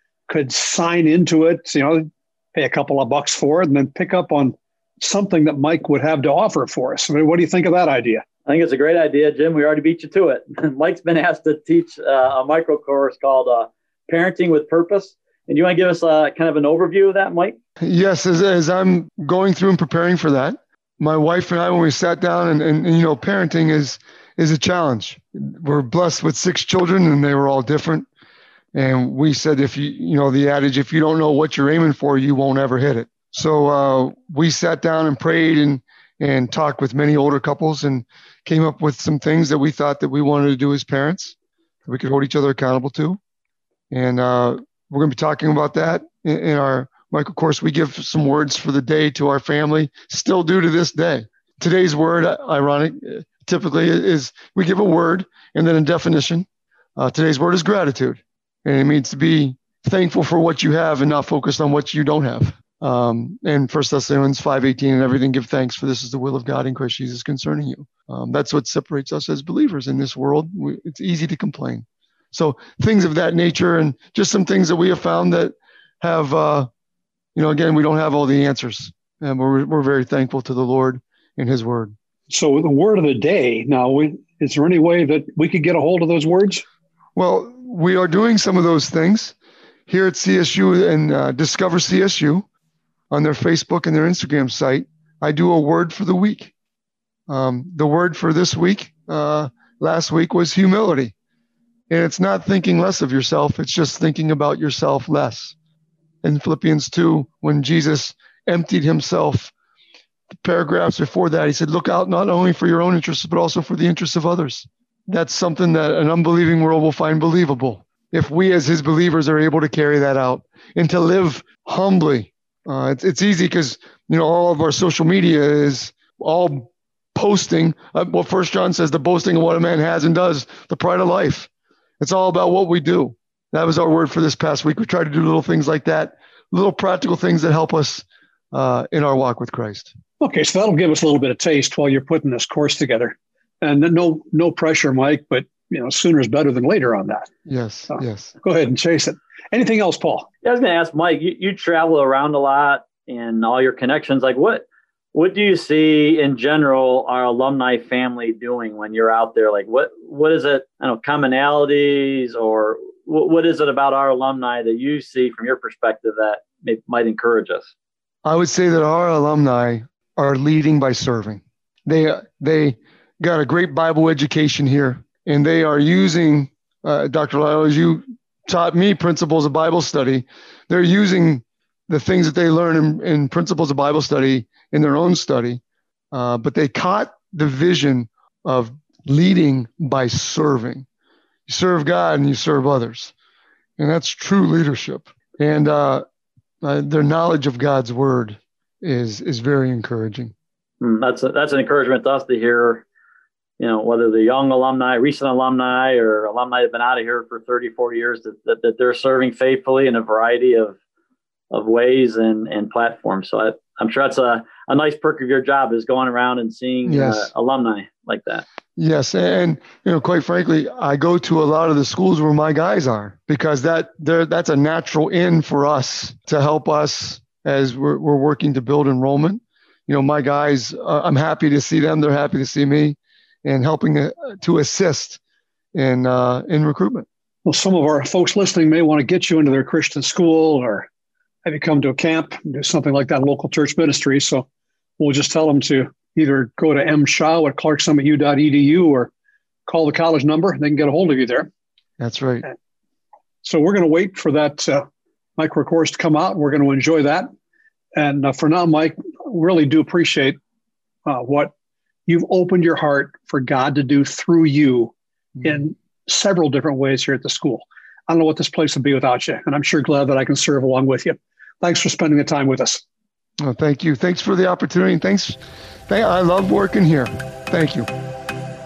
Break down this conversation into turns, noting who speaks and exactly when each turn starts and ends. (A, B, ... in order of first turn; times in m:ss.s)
0:00.3-0:08.2 A
0:08.5-0:17.6 B
0:17.8-0:28.1 C
0:28.7-0:43.2 C
0:43.9-0:56.5 C
0:57.0-1:16.7 C
1:17.4-1:22.0 C
1:22.3-1:26.6 A
1:27.2-1:29.4 C
1:29.9-1:32.5 C
1:33.1-1:36.5 C
1:37.3-1:41.2 C
1:41.9-1:45.6 C
1:46.2-1:49.5 C
1:50.3-2:11.5 C
2:12.0-2:19.9 C
2:20.2-2:27.3 A
2:27.5-2:28.4 C
2:27.9-2:30.3 A
2:30.4-2:47.7 B
2:48.2-3:10.9 C
3:11.5-3:13.1 C
3:13.8-3:16.0 C
3:16.6-3:20.3 C
3:20.8-3:22.9 B
3:23.6-3:30.8 B
3:31.5-3:38.4 B
3:36.9-3:37.3 C
3:38.8-3:55.2 C
3:55.8-3:57.1 C
3:57.4-4:00.9 A
4:01.4-4:04.5 A
4:05.0-4:09.1 A
4:09.7-4:11.5 A
4:12.0-4:12.5 C
4:13.4-4:14.8 A
4:15.4-4:17.3 A
4:18.0-4:20.4 A
4:21.1-4:21.5 A
4:22.1-4:32.8 A
4:33.4-4:37.9 C